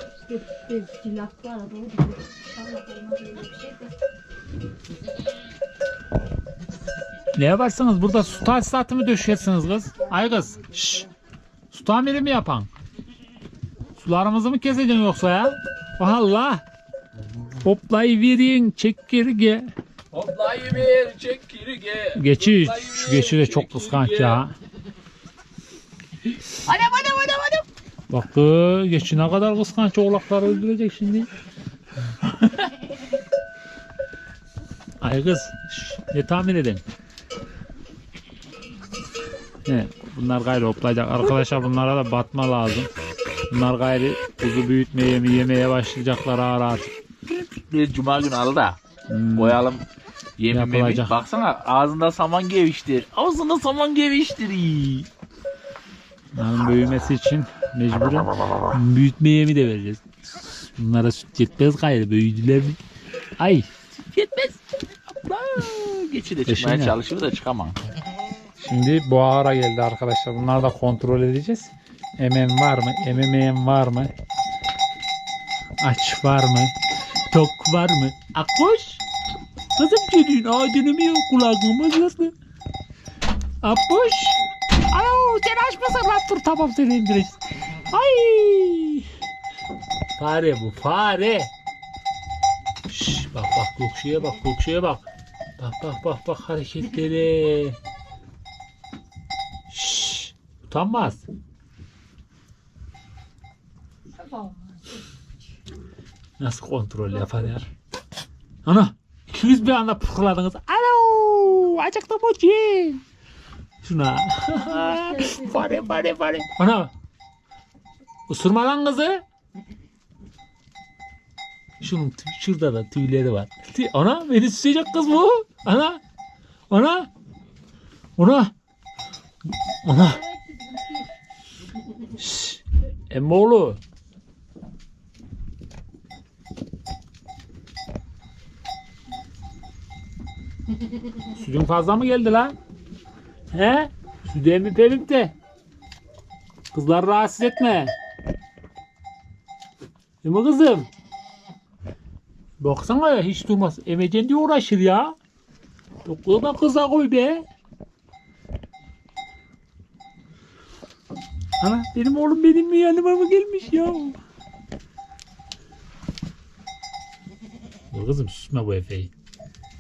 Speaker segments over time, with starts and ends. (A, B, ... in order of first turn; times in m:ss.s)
0:00.3-0:03.9 A
0:07.4-0:11.0 B
0:10.0-0:11.1 A
0:11.7-0:12.7 B
0:14.0-0:16.6 B
0:17.6-0:19.7 B
0:20.1-0:24.4 C
0:22.1-0:24.5 B
0:26.5-0:27.6 C
0:28.1-0:31.3 B
0:35.0-0:36.8 B
0:39.6-0:42.9 B
0:43.5-0:46.9 B
0:47.3-0:48.8 C
0:49.1-0:49.6 B
0:49.4-0:49.9 C
0:50.4-0:55.1 C
0:50.5-0:51.1 B
0:56.4-1:02.8 B
1:03.4-1:03.7 B
1:04.1-1:07.8 C
1:06.5-1:07.0 B
1:08.6-1:14.1 B
1:15.8-1:16.7 B
1:17.3-1:19.0 B
1:19.8-1:22.4 B
1:23.6-1:24.4 B
1:24.9-1:29.1 B
1:30.2-1:31.5 B
1:32.9-1:35.0 B
1:35.6-1:37.8 B
1:39.7-1:41.2 B
1:44.2-1:45.1 A
1:46.4-1:47.7 B
1:48.6-1:53.0 B
1:53.8-1:56.9 B
1:54.5-1:56.0 A
1:58.3-1:59.2 B
2:01.8-2:06.0 B
2:06.7-2:07.1 B
2:08.2-2:08.5 B
2:09.8-2:10.2 B
2:09.9-2:11.1 A
2:12.2-2:13.8 B
2:21.3-2:22.6 B
2:23.5-2:25.3 B
2:26.7-2:27.9 B
2:30.2-2:30.9 B
2:32.6-2:35.2 B
2:36.0-2:37.4 B
2:41.6-2:44.2 B
2:47.9-2:49.1 B